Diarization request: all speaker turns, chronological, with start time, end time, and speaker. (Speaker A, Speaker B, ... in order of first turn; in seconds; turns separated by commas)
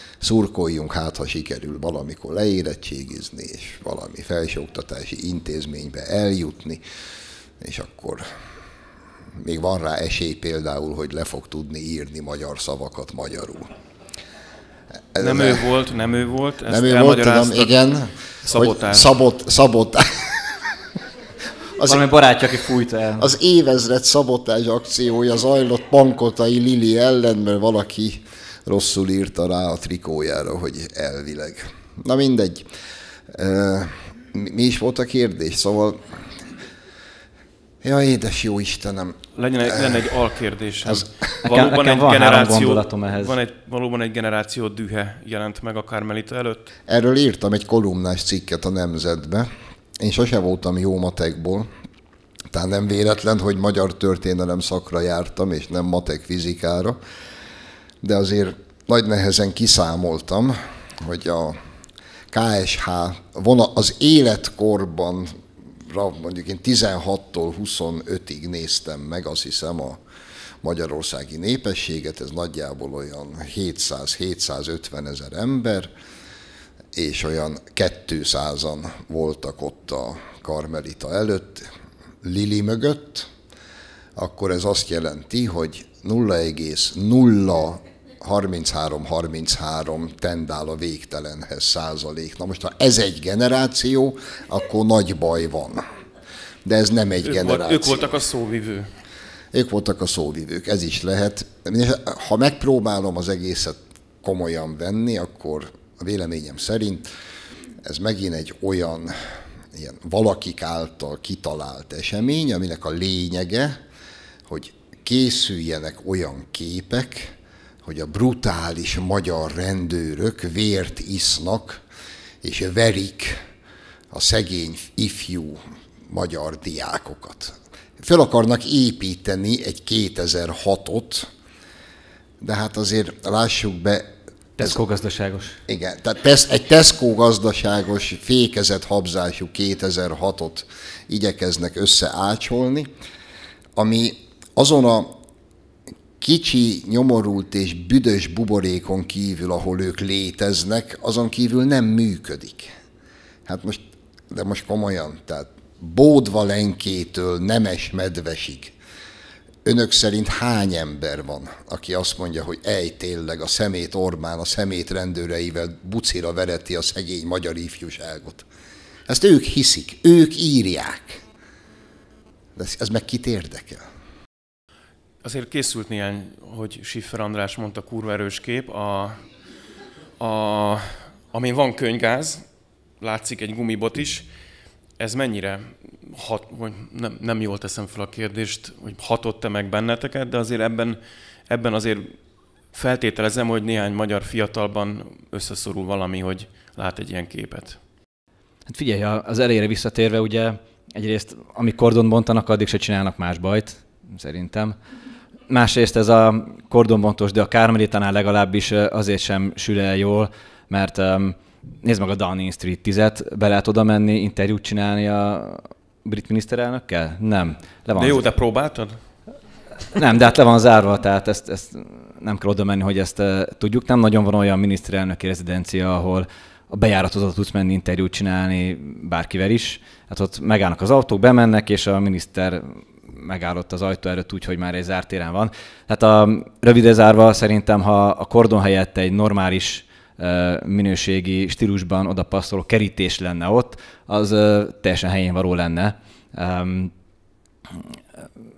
Speaker A: 0.2-6.8, Speaker A: 7.6-8.2, Speaker A: 9.4-13.7, Speaker A: 15.1-15.6, Speaker B: 15.2-17.7, Speaker A: 16.7-20.6, Speaker B: 18.4-19.1, Speaker C: 21.8-23.3, Speaker A: 23.2-32.6, Speaker A: 33.3-36.2, Speaker A: 37.8-40.0, Speaker B: 39.4-46.7, Speaker C: 41.4-43.3, Speaker A: 46.9-51.7, Speaker A: 52.5-57.0, Speaker A: 58.0-61.6, Speaker A: 62.3-70.0, Speaker A: 70.6-75.9, Speaker A: 76.9-81.7, Speaker A: 82.2-83.3, Speaker A: 84.2-95.8, Speaker A: 96.6-98.2, Speaker B: 97.2-98.9, Speaker A: 99.5-107.1, Speaker A: 107.8-109.1, Speaker A: 109.7-113.8, Speaker A: 114.5-121.8, Speaker A: 122.4-123.4, Speaker A: 124.1-131.3, Speaker A: 132.4-134.1, Speaker C: 134.6-135.6, Speaker A: 135.7-142.9, Speaker A: 143.8-145.2, Speaker A: 146.2-152.7, Speaker A: 153.4-158.7, Speaker A: 159.6-168.4, Speaker A: 169.1-171.2, Speaker A: 172.6-173.8, Speaker B: 175.2-179.2, Speaker B: 180.2-182.4, Speaker B: 183.0-184.3, Speaker B: 185.0-192.1, Speaker B: 192.7-197.8, Speaker C: 198.7-204.8, Speaker C: 205.5-218.2, Speaker B: 217.9-218.9, Speaker C: 219.9-246.9, Speaker C: 247.7-248.3